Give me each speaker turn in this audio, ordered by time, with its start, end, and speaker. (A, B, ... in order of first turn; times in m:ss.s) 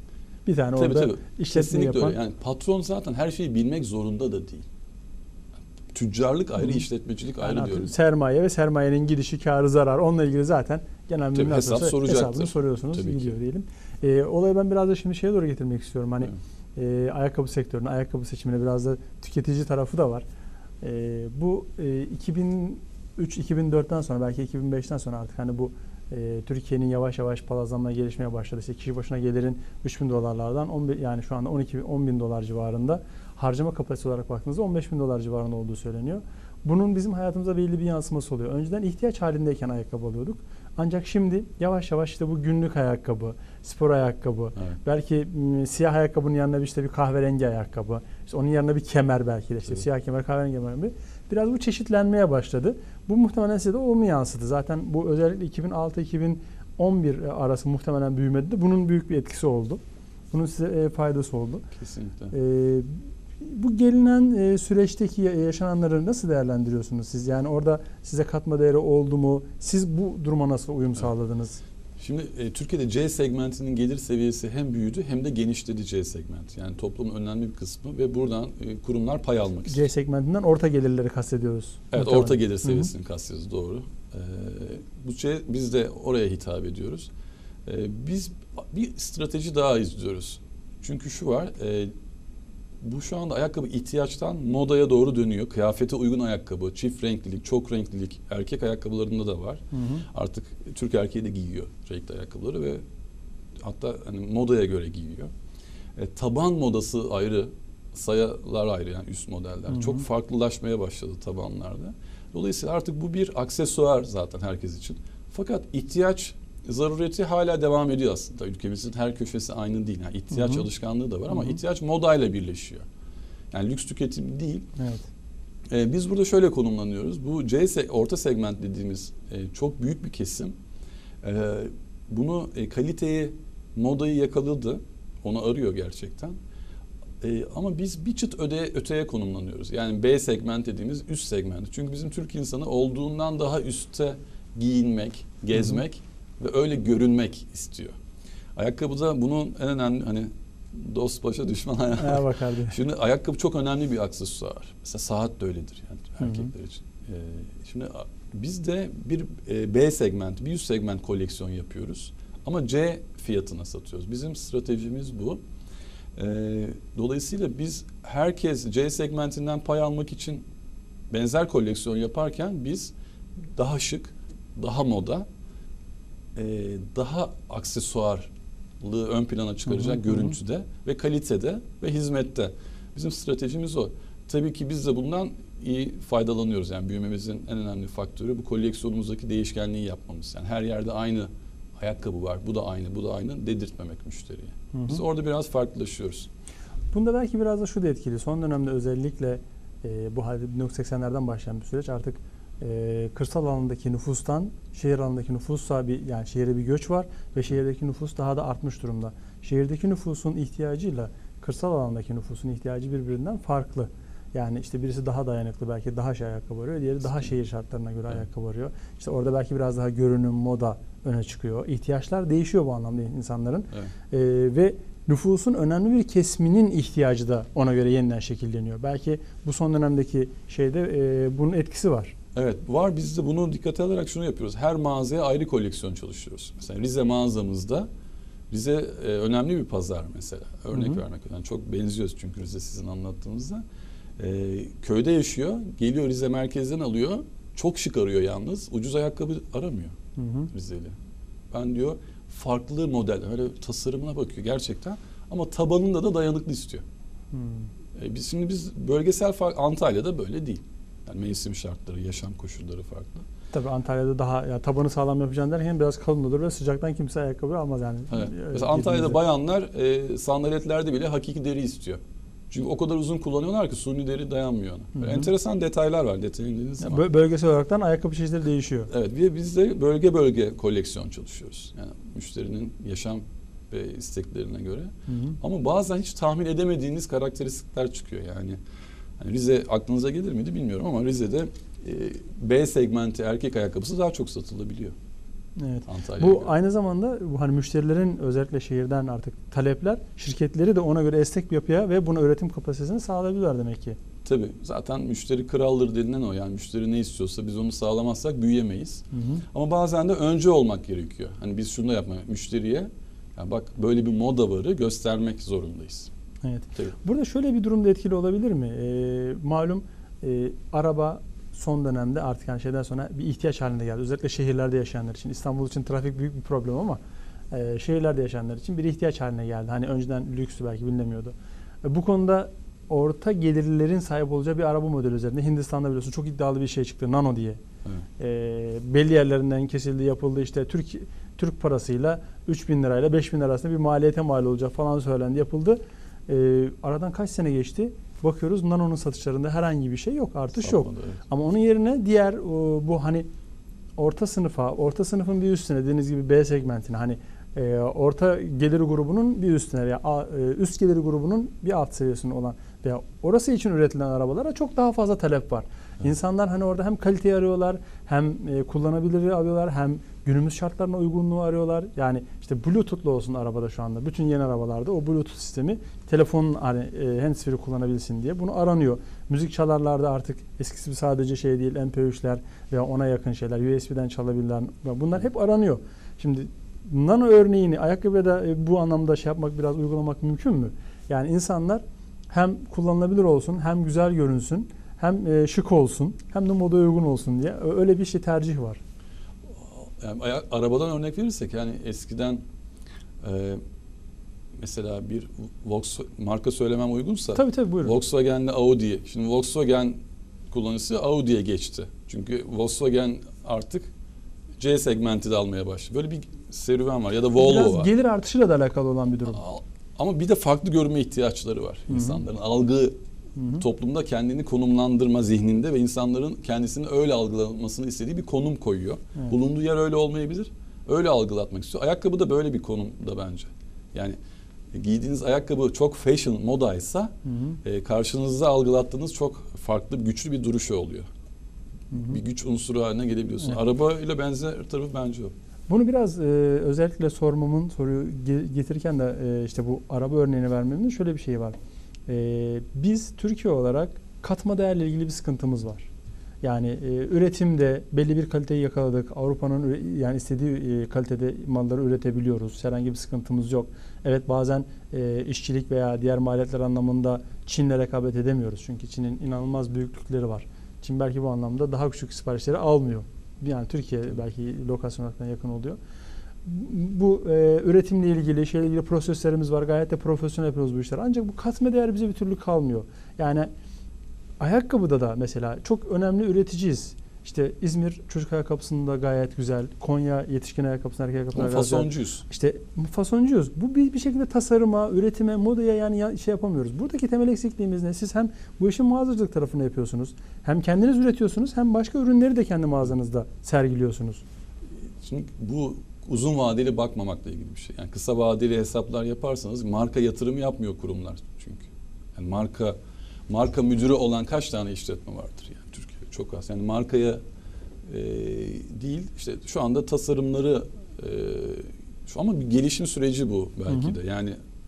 0:00.4-0:02.2 A
0:00.8-0:04.7 B
0:05.9-0:07.9 B
0:07.4-0:20.2 A
0:11.3-0:13.4 B
0:20.8-1:01.7 A
1:01.8-1:02.3 B
1:02.3-1:11.6 A
1:12.0-1:19.8 B
1:19.7-1:22.9 A
1:21.9-1:27.1 B
1:27.7-1:31.9 B
1:32.8-1:42.8 B
1:39.7-1:40.0 A
1:43.6-1:45.3 B
1:46.0-2:02.8 B
1:49.7-1:50.0 A
2:00.3-2:00.7 A
2:01.3-2:01.6 A
2:03.5-2:04.7 B
2:04.8-2:05.0 A
2:05.7-2:10.6 B
2:11.2-2:16.4 B
2:17.2-2:27.9 B
2:25.6-2:25.8 A
2:28.6-2:45.4 B
2:32.0-2:32.8 A
2:36.2-2:36.5 A
2:46.2-2:50.4 B
2:51.1-2:52.9 B
2:53.6-2:55.2 B
2:56.4-3:16.3 B
2:59.7-3:00.3 A
3:14.7-3:15.0 A
3:16.9-3:52.1 A
3:52.3-3:57.9 B
3:58.5-4:03.6 B
4:00.7-4:01.0 A
4:04.2-4:09.9 B
4:10.2-4:10.5 A
4:10.5-4:10.9 B
4:11.5-4:16.8 B
4:17.3-4:17.7 A
4:18.0-4:23.2 B
4:23.5-4:29.2 A
4:28.1-4:37.0 B
4:35.0-4:35.3 A
4:36.8-4:38.9 A
4:38.9-4:48.6 B
4:45.1-4:45.4 A
4:49.2-4:54.9 B
4:55.6-5:04.0 A
4:55.9-4:56.5 B
5:04.2-5:16.1 B
5:09.1-5:09.4 A
5:16.4-5:27.0 A
5:27.5-5:37.6 A
5:38.2-5:53.3 A
5:50.6-5:51.2 B
5:54.0-6:38.8 A
6:39.5-6:42.4 B
6:43.2-6:43.6 B
6:44.6-6:50.0 B
6:47.4-6:48.0 A
6:50.5-6:53.9 B
6:54.6-6:57.9 B
6:57.3-6:59.4 A
6:59.3-7:03.0 B
7:01.9-7:02.2 A
7:03.4-7:03.6 A
7:03.5-7:14.2 B
7:14.7-7:17.1 B
7:17.3-7:17.6 A
7:17.6-7:21.1 B
7:21.9-7:25.3 B
7:25.7-7:31.6 A
7:32.1-7:35.9 A
7:36.4-7:55.8 A
7:56.4-8:03.5 A
8:04.4-8:24.2 A
8:11.3-8:12.2 B
8:25.0-8:32.8 B
8:33.3-8:37.2 B
8:37.8-8:44.4 B
8:43.7-8:44.0 A